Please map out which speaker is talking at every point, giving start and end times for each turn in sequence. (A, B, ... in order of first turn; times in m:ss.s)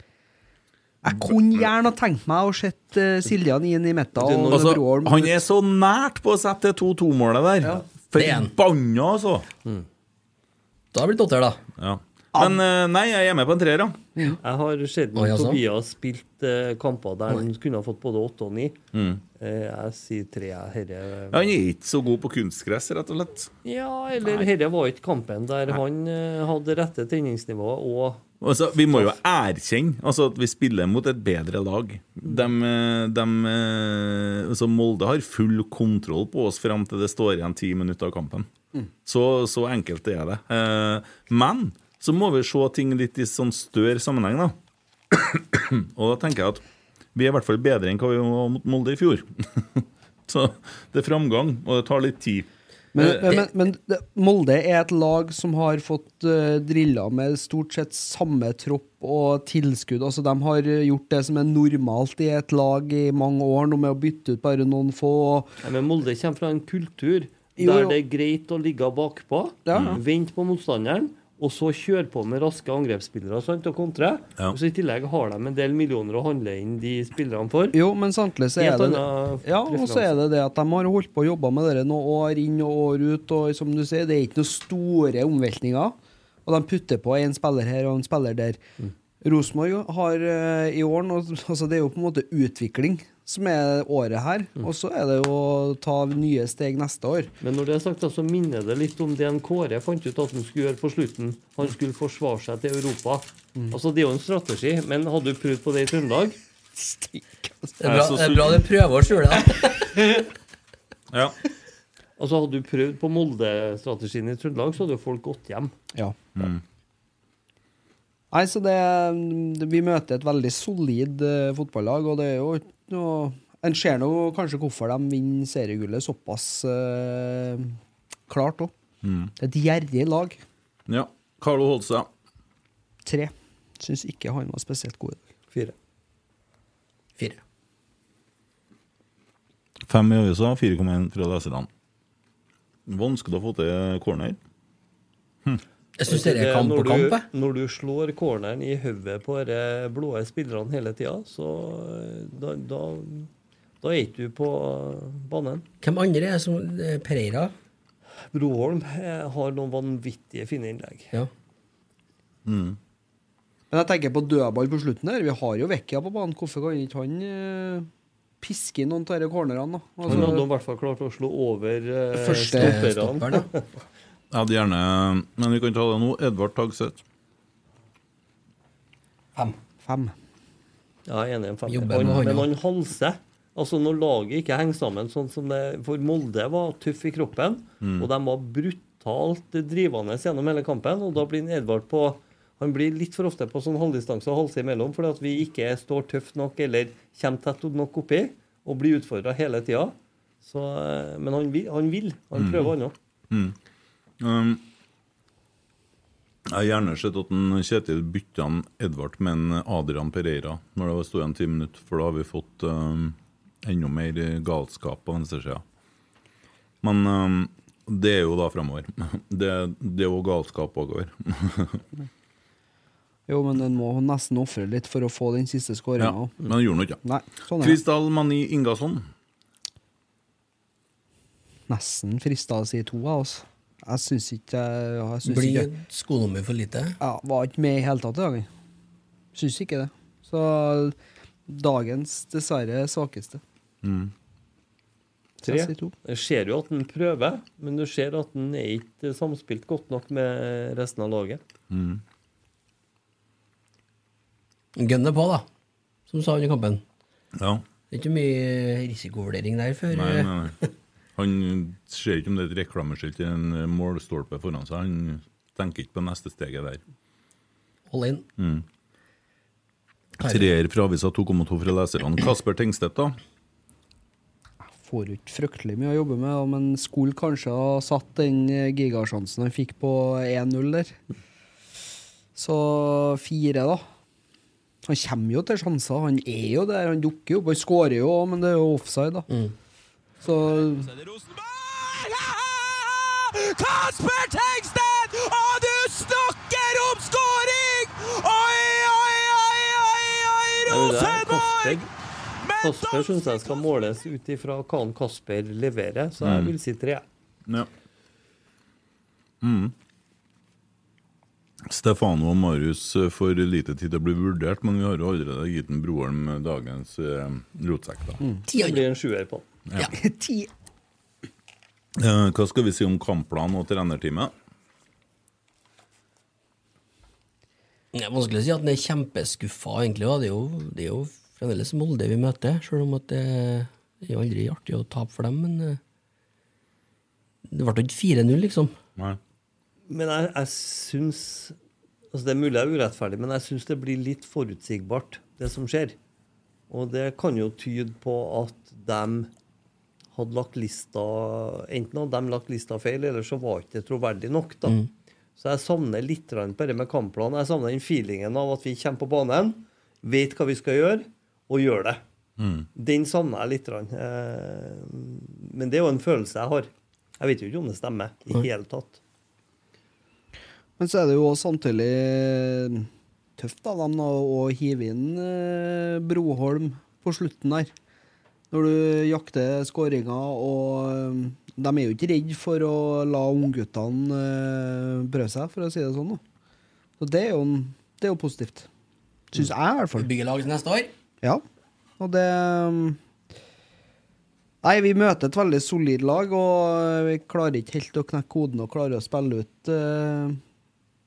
0:01.0-0:05.3 A
0:04.2-0:04.8 B
0:04.5-0:09.5 C
0:08.2-0:08.5 D
0:10.9-0:11.6 D
0:11.8-0:14.0 C
0:14.4-0:18.8 B
0:15.2-0:15.6 D
0:18.9-0:19.2 C
0:19.4-0:21.5 B
0:21.3-0:23.5 C
0:23.6-0:28.2 B
0:28.4-0:38.5 C
0:39.0-0:44.6 C
0:45.1-0:46.6 C
0:47.2-0:53.5 C
0:53.0-1:05.5 A
1:05.6-1:17.8 B
1:07.6-1:08.0 A
1:09.7-1:10.0 A
1:09.7-1:10.0 C
1:17.7-1:28.6 A
1:18.6-1:20.2 B
1:29.2-1:37.3 A
1:37.4-1:46.4 B
1:47.1-1:47.7 A
1:47.8-1:49.8 D
1:47.8-1:48.7 C
1:52.2-1:55.7 B
1:56.4-1:56.6 C
1:58.3-2:07.8 A
2:08.3-2:08.7 A
2:09.0-2:09.3 C
2:09.4-2:10.4 A
2:10.9-2:12.1 C
2:13.1-2:15.2 A
2:19.9-2:21.7 C
2:22.9-2:24.4 C
2:26.0-2:27.3 D
2:26.1-2:33.3 B
2:33.8-2:35.6 B
2:35.8-2:37.5 D
2:38.3-2:41.1 B
2:42.5-2:42.8 C
2:43.7-2:47.9 A
2:48.4-2:50.5 A
2:50.1-2:53.7 B
2:52.2-2:52.8 A
2:52.4-2:53.5 D
2:54.3-2:57.0 C
2:59.8-3:00.1 A
3:01.1-3:23.0 B
3:01.7-3:02.5 D
3:07.8-3:08.1 C
3:22.4-3:22.7 C
3:24.2-3:24.6 C
3:26.5-3:35.6 C
3:36.8-3:41.8 C
3:43.3-3:46.4 A
3:46.0-3:47.0 C
3:47.0-3:47.8 A
3:47.6-3:49.0 C
3:51.7-3:55.7 A
3:55.2-3:57.0 D
3:57.0-3:58.5 A
3:59.3-4:01.0 A
4:01.5-4:03.4 A
4:03.8-4:04.1 C
4:05.4-4:05.9 A
4:05.4-4:11.4 B
4:11.7-4:12.0 C
4:14.8-4:15.4 D
4:16.1-4:16.8 D
4:17.4-4:17.6 C
4:17.9-4:20.6 D
4:19.9-4:20.5 C
4:21.2-4:26.8 C
4:27.9-4:28.3 D
4:28.4-4:28.6 C
4:30.2-4:30.5 D
4:30.2-4:33.2 C
4:34.7-4:41.0 A
4:42.4-4:43.8 A
4:44.8-4:49.3 A
4:50.2-4:50.9 A
4:51.0-5:01.8 E
5:00.7-5:01.9 B
5:02.6-5:07.0 B
5:02.7-5:03.0 E
5:06.2-5:06.5 C
5:09.4-5:09.7 C
5:11.7-5:18.2 C
5:18.2-5:18.5 A
5:18.5-5:18.8 D
5:18.5-5:19.5 B
5:19.9-5:20.5 A
5:22.0-5:24.3 C
5:27.9-5:35.8 D
5:37.5-5:38.7 D
5:39.9-5:41.6 B
5:42.1-5:46.0 B
5:46.7-5:49.3 B
5:50.1-5:54.8 B
5:55.4-6:02.0 B
6:02.4-6:02.7 C
6:02.8-6:09.0 B
6:10.8-6:17.7 A
6:18.5-6:26.2 A
6:27.0-6:28.7 A
6:29.3-6:30.1 A
6:29.4-6:30.9 D
6:32.0-6:33.0 A
6:34.6-6:40.4 A